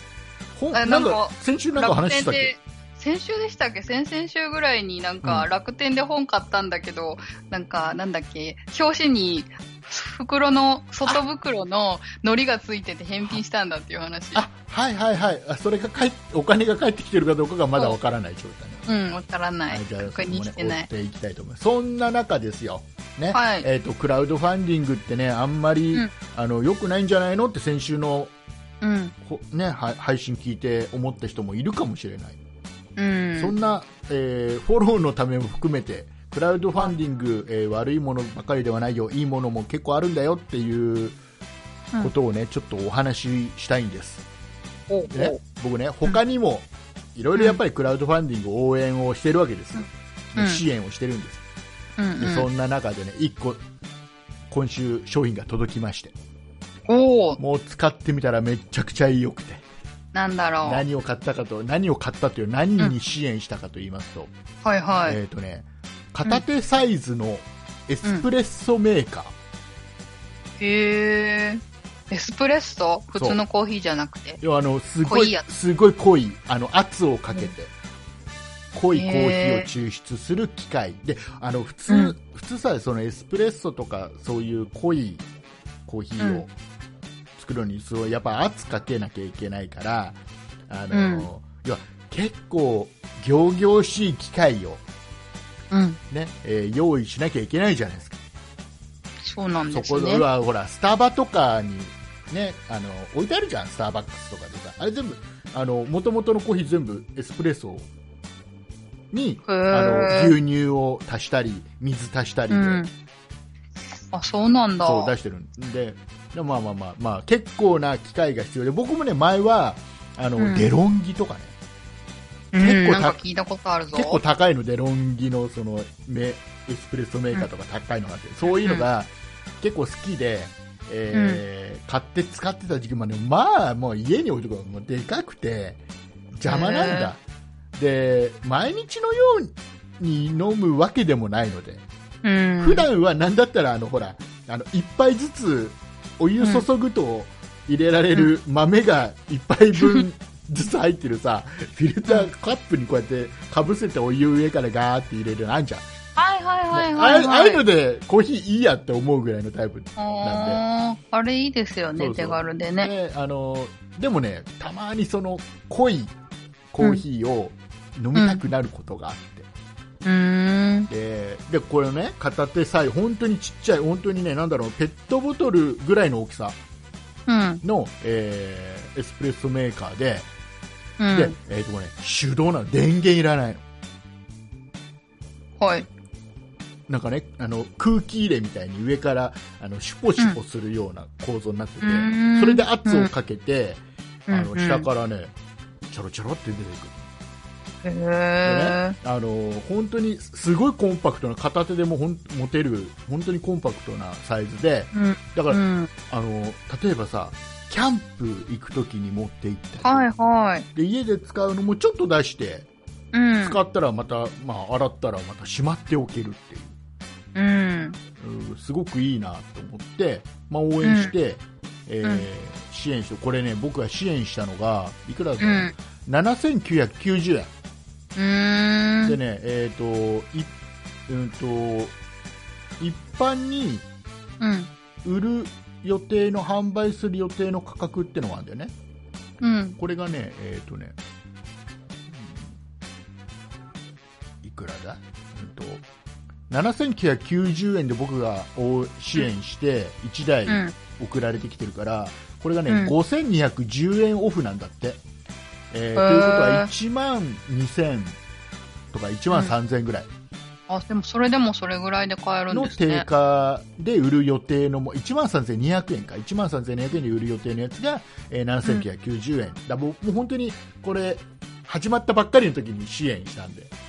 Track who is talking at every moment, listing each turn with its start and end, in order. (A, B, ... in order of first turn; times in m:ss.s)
0:00.5-0:02.5 A
0:00.7-0:14.4 B
0:05.2-0:05.5 A
0:14.3-0:18.9 A
0:18.9-0:20.9 B
0:19.7-0:28.3 A
0:23.3-0:23.7 B
0:28.8-0:29.1 B
0:29.2-0:32.4 A
0:33.0-0:33.5 B
0:33.4-0:41.2 A
0:42.0-0:44.2 A
0:44.9-0:45.4 B
0:45.1-0:51.4 A
0:50.4-0:50.6 B
0:52.0-0:52.5 B
0:52.2-0:53.6 A
0:54.5-0:56.1 A
0:56.9-0:57.4 B
0:57.4-0:59.6 A
1:00.1-1:00.8 B
1:00.6-1:04.3 A
1:04.6-1:05.2 B
1:05.0-1:09.3 A
1:10.6-1:14.4 B
1:13.1-1:13.4 A
1:14.4-1:17.7 A
1:15.0-1:15.4 B
1:18.7-1:25.2 A
1:18.9-1:19.7 B
1:21.9-1:22.1 B
1:25.8-1:26.5 A
1:26.2-1:26.4 B
1:27.4-1:30.2 A
1:30.7-1:34.8 A
1:30.9-1:31.3 B
1:35.7-1:36.0 B
1:36.1-1:38.2 A
1:39.2-1:40.2 B
1:39.7-1:47.9 A
1:49.1-1:52.8 A
1:49.5-1:50.3 B
1:52.5-1:52.9 B
1:54.1-1:55.1 B
1:54.8-2:01.5 A
2:00.4-2:00.7 B
2:02.5-2:04.2 B
2:02.6-2:03.2 A
2:03.9-2:15.8 A
2:08.5-2:08.8 B
2:11.1-2:11.4 B
2:16.3-2:17.2 A
2:16.4-2:17.1 B
2:17.8-2:21.8 A
2:22.2-2:22.8 B
2:22.6-2:35.9 A
2:26.4-2:26.6 B
2:36.2-2:37.6 B
2:36.7-2:40.6 A
2:40.0-2:42.9 B
2:42.0-2:46.1 A
2:46.7-2:49.5 A
2:48.2-2:48.4 B
2:50.0-2:50.9 B
2:50.9-2:56.6 A
2:57.3-2:57.6 B
2:57.6-3:00.3 A
3:01.0-3:01.3 B
3:01.1-3:03.6 A
3:05.6-3:05.9 B
3:06.9-3:15.3 A
3:11.8-3:13.1 B
3:14.3-3:14.9 B
3:15.9-3:17.1 A
3:17.8-3:19.0 B
3:18.4-3:30.0 A
3:24.9-3:25.9 B
3:29.8-3:30.7 B
3:30.7-3:32.7 A
3:33.1-3:33.6 B
3:33.4-3:36.8 A
3:37.3-3:38.0 B
3:38.2-3:47.5 A
3:40.8-3:41.1 B
3:45.4-3:45.7 B
3:48.2-3:49.2 B
3:49.0-3:50.5 A
3:51.1-3:51.9 A
3:52.8-3:53.8 A
3:54.4-3:54.7 B
3:55.0-3:58.7 A
3:59.4-3:59.8 B
3:59.8-4:01.0 A
4:02.1-4:02.4 A
4:04.4-4:05.8 A
4:06.5-4:15.0 A
4:10.5-4:10.8 B
4:12.7-4:12.9 B
4:15.7-4:18.2 A
4:16.0-4:16.7 B
4:18.9-4:20.1 A
4:20.7-4:23.0 B
4:22.5-4:33.7 A